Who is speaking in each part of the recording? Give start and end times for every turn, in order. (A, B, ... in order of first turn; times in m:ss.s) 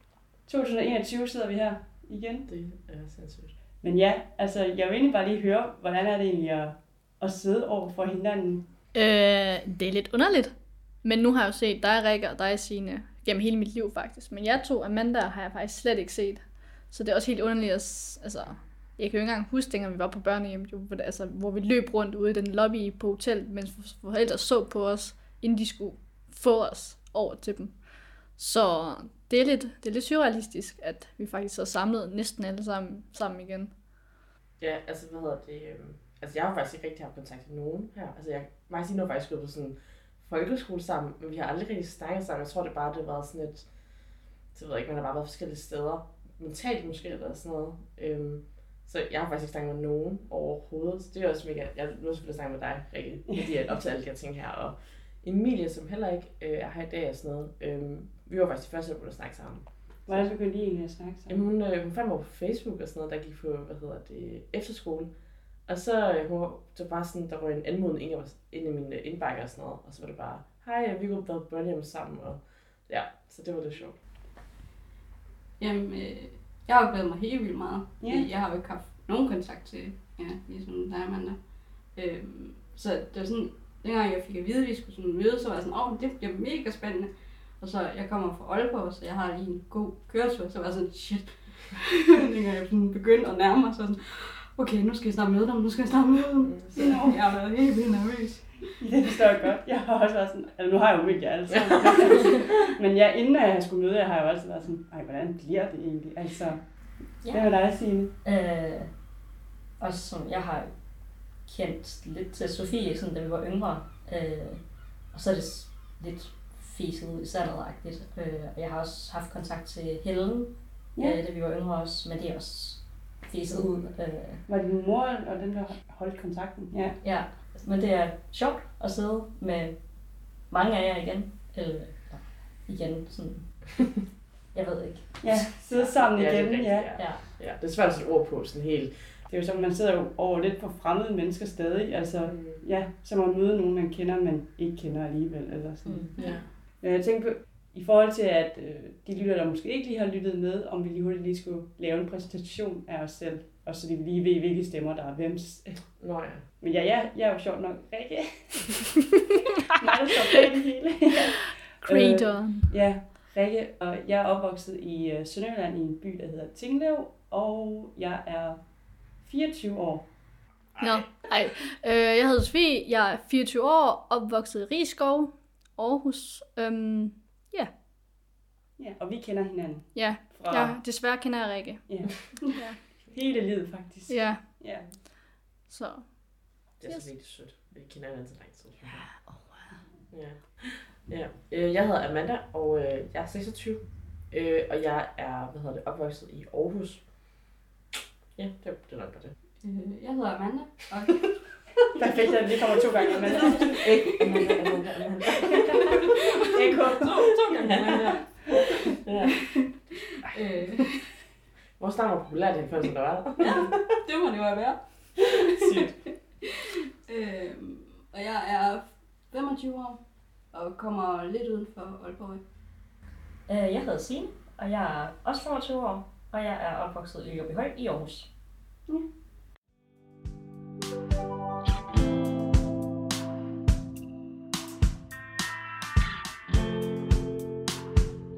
0:00.4-0:02.5 A
0:02.5-0:03.5 B
0:03.8-0:08.7 A
0:08.9-0:33.8 C
0:34.6-1:00.3 B
1:00.1-1:01.3 A
1:01.3-1:14.0 B
1:15.6-1:38.8 D
1:36.8-1:37.1 A
1:38.8-1:48.1 A
1:41.5-1:41.9 B
1:47.2-1:47.6 E
1:48.1-1:49.2 E
1:49.8-2:04.4 E
2:04.5-2:07.0 A
2:07.0-2:13.9 E
2:14.5-2:15.5 E
2:15.2-2:16.9 A
2:15.7-2:19.2 B
2:17.0-2:17.2 E
2:19.3-2:26.1 A
2:22.2-2:22.6 B
2:25.8-2:26.3 E
2:26.2-2:26.4 B
2:26.7-2:35.8 A
2:36.0-2:36.4 B
2:36.6-2:38.9 A
2:39.8-2:50.1 A
2:41.8-2:42.7 C
2:50.7-2:51.0 B
2:50.8-2:57.7 C
2:58.8-3:00.8 A
2:59.9-3:01.9 C
3:01.9-3:02.3 A
3:02.5-3:02.8 C
3:02.9-3:04.8 A
3:04.1-3:04.6 C
3:05.6-3:07.1 C
3:06.8-3:09.3 B
3:08.8-3:09.7 C
3:10.1-3:17.5 B
3:18.3-3:19.4 B
3:19.6-3:21.6 D
3:22.0-3:23.8 A
3:22.9-3:24.8 D
3:23.3-3:25.9 B
3:25.4-3:28.6 D
3:26.6-3:26.9 A
3:27.5-3:29.8 B
3:29.2-3:29.5 D
3:30.3-3:31.0 D
3:31.8-3:33.8 B
3:33.4-3:36.1 D
3:35.6-3:36.0 B
3:37.1-3:42.4 D
3:43.5-3:48.3 E